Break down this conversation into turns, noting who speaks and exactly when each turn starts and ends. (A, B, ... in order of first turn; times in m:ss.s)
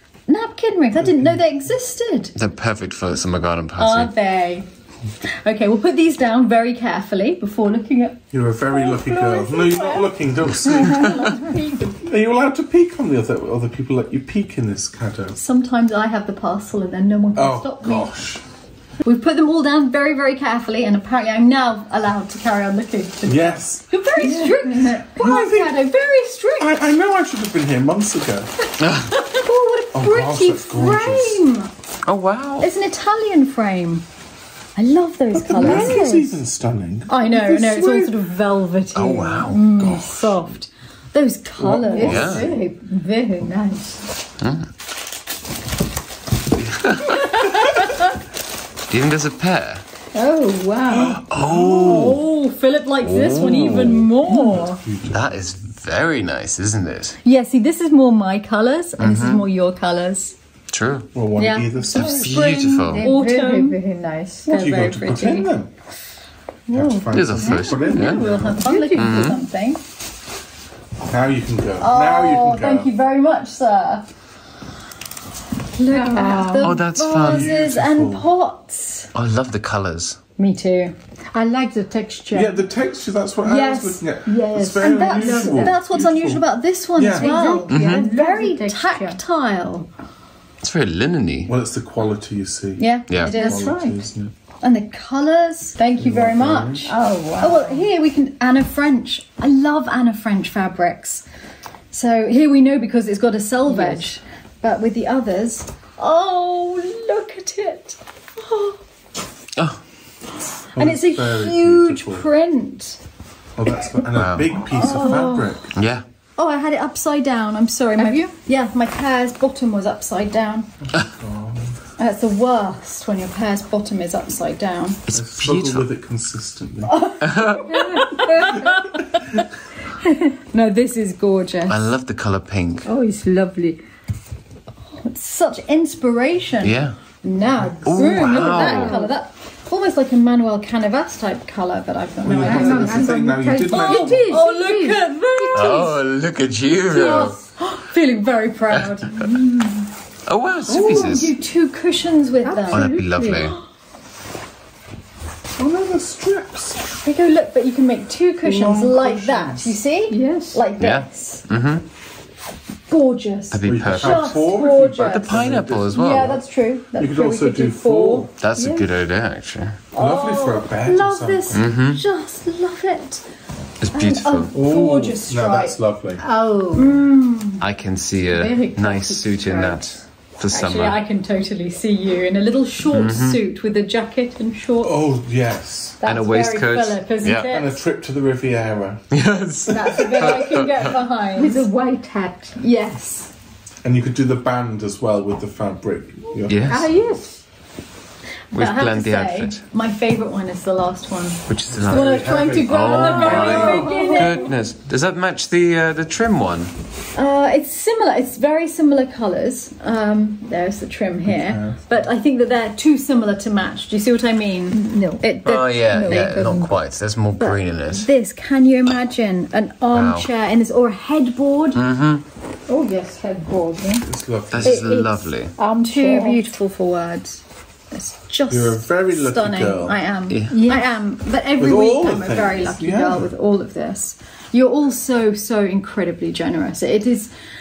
0:00.3-0:02.3 A
0:01.0-0:01.4 B
0:02.4-0:04.1 C
0:03.8-0:04.7 A
0:05.2-0:08.2 A
0:08.3-0:11.4 B
0:08.7-0:10.0 D
0:10.6-0:12.0 D
0:12.0-0:15.4 B
0:15.4-0:18.1 A
0:17.3-0:18.4 B
0:19.0-0:26.8 A
0:23.2-0:23.9 B
0:24.2-0:25.0 D
0:25.1-0:25.8 B
0:26.6-0:28.5 B
0:28.8-0:29.1 C
0:29.1-0:31.7 A
0:29.9-0:31.4 B
0:32.0-0:32.7 C
0:32.6-0:34.0 A
0:34.8-0:36.1 A
0:35.3-0:37.5 B
0:35.6-0:36.4 D
0:37.1-0:42.5 A
0:37.5-0:38.1 D
0:38.9-0:40.3 C
0:41.6-0:42.6 B
0:41.9-0:44.0 D
0:42.0-0:42.5 C
0:44.4-0:44.7 C
0:46.6-0:47.9 C
0:47.1-0:47.9 A
0:48.9-0:49.8 C
0:50.1-0:51.2 D
0:50.9-0:52.1 B
0:51.3-0:52.2 C
0:51.6-0:54.8 A
0:53.0-0:54.1 C
0:54.2-0:55.2 B
0:55.1-0:57.2 C
0:57.2-1:00.4 A
0:59.0-0:59.4 C
1:00.7-1:01.1 C
1:01.1-1:02.5 B
1:01.4-1:03.8 A
1:01.9-1:03.1 C
1:02.0-1:04.8 D
1:04.4-1:05.4 A
1:04.5-1:05.7 B
1:06.7-1:08.7 B
1:06.7-1:09.8 A
1:07.1-1:08.2 C
1:07.5-1:09.4 D
1:08.9-1:09.4 C
1:11.0-1:12.9 B
1:11.8-1:14.1 A
1:15.7-1:19.1 A
1:15.9-1:16.8 D
1:16.6-1:17.5 C
1:17.1-1:18.2 B
1:19.1-1:20.2 C
1:20.4-1:20.9 A
1:21.3-1:22.6 D
1:22.3-1:26.4 B
1:23.4-1:24.0 A
1:23.7-1:25.8 D
1:24.8-1:29.9 A
1:26.9-1:27.6 B
1:27.1-1:29.2 D
1:27.7-1:28.0 C
1:30.6-1:31.5 C
1:31.5-1:34.3 B
1:32.8-1:33.6 A
1:33.1-1:33.3 C
1:33.3-1:34.0 D
1:34.6-1:41.2 A
1:36.0-1:36.9 B
1:36.8-1:37.8 D
1:41.9-1:48.8 A
1:43.7-1:44.0 D
1:50.7-1:52.3 B
1:50.7-1:53.0 A
1:53.6-1:55.7 B
1:54.1-1:54.6 C
1:54.7-1:55.6 A
1:54.8-1:55.4 D
1:55.7-1:56.0 C
1:56.4-2:00.7 A
1:58.0-1:58.2 D
2:00.8-2:01.8 B
2:02.0-2:05.0 A
2:05.1-2:05.9 C
2:05.1-2:07.1 B
2:07.2-2:07.8 C
2:07.7-2:08.6 D
2:07.7-2:09.0 A
2:10.3-2:11.9 A
2:11.7-2:12.9 C
2:12.8-2:13.8 D
2:15.0-2:25.9 A
2:16.6-2:16.9 C
2:17.8-2:19.0 C
2:18.0-2:19.1 D
2:22.2-2:24.3 B
2:22.3-2:25.8 D
2:25.5-2:27.4 C
2:26.9-2:29.2 A
2:29.2-2:29.7 D
2:30.3-2:31.3 C
2:30.7-2:31.2 B
2:30.7-2:32.9 A
2:32.4-2:33.6 D
2:32.7-2:33.6 C
2:35.6-2:36.8 B
2:37.0-2:41.4 A
2:38.4-2:39.0 D
2:38.5-2:39.7 B
2:40.1-2:40.6 D
2:40.8-2:41.8 C
2:42.9-2:48.3 A
2:43.5-2:44.4 C
2:43.6-2:46.4 B
2:45.0-2:46.4 C
2:47.0-2:48.3 B
2:48.4-2:49.8 C
2:48.6-2:48.9 D
2:49.9-2:53.2 A
2:49.9-2:51.7 B
2:51.5-2:52.0 C
2:53.8-2:54.5 C
2:53.9-2:55.8 A
2:54.5-2:56.2 B
2:56.2-2:57.0 D
2:56.7-2:57.6 A
2:57.6-3:01.0 C
2:58.2-2:59.8 D
3:00.5-3:05.0 A
3:02.9-3:03.4 C
3:04.8-3:06.0 B
3:06.0-3:07.8 A
3:06.0-3:07.5 C
3:07.5-3:09.1 B
3:09.1-3:11.0 C
3:09.7-3:10.4 B
3:09.7-3:11.7 A
3:11.3-3:12.6 D
3:12.6-3:13.3 A
3:13.8-3:16.7 B
3:16.5-3:16.9 C
3:16.6-3:17.4 D
3:18.5-3:24.5 A
3:18.5-3:19.6 C
3:21.5-3:26.7 C
3:21.7-3:24.1 B
3:22.9-3:24.5 D
3:27.1-3:36.5 A
3:31.2-3:31.9 B
3:34.7-3:35.3 D
3:35.4-3:38.1 C
3:35.9-3:36.7 D
3:37.4-3:41.8 A
3:39.9-3:40.3 C
3:41.7-3:42.2 C
3:42.7-3:44.1 D
3:44.0-3:44.9 B
3:44.5-3:45.6 C
3:44.6-3:46.4 D
3:45.8-3:57.3 A
3:48.5-3:50.0 B
3:50.3-3:50.8 C
3:50.5-3:50.9 D
3:51.6-3:53.3 B